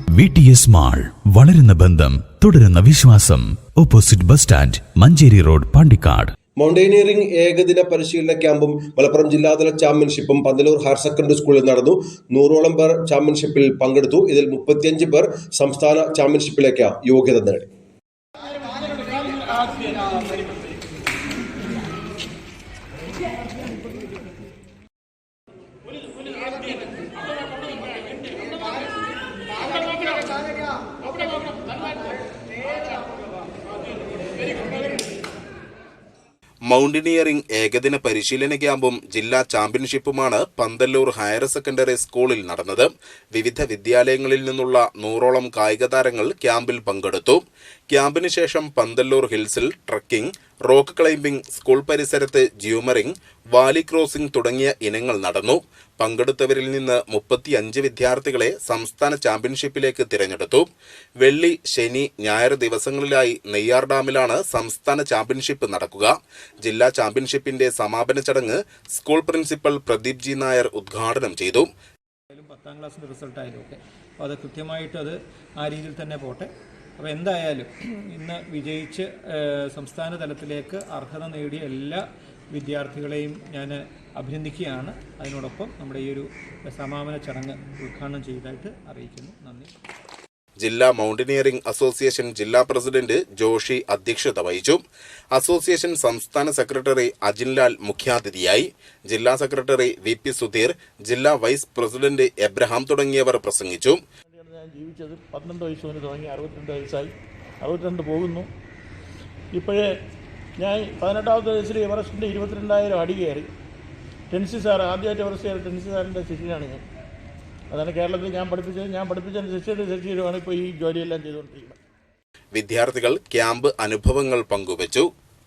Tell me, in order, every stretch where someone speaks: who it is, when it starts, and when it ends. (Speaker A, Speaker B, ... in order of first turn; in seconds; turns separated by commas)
Speaker A: 0.1-6.3, Speaker B: 6.6-17.7, Speaker C: 36.7-60.7, Speaker C: 61.2-71.7, Speaker D: 72.3-89.7, Speaker C: 90.6-94.8, Speaker C: 95.3-104.0, Speaker E: 104.3-108.5, Speaker E: 109.5-109.8, Speaker E: 110.6-113.5, Speaker E: 114.3-116.8, Speaker E: 117.7-121.8, Speaker C: 122.5-125.1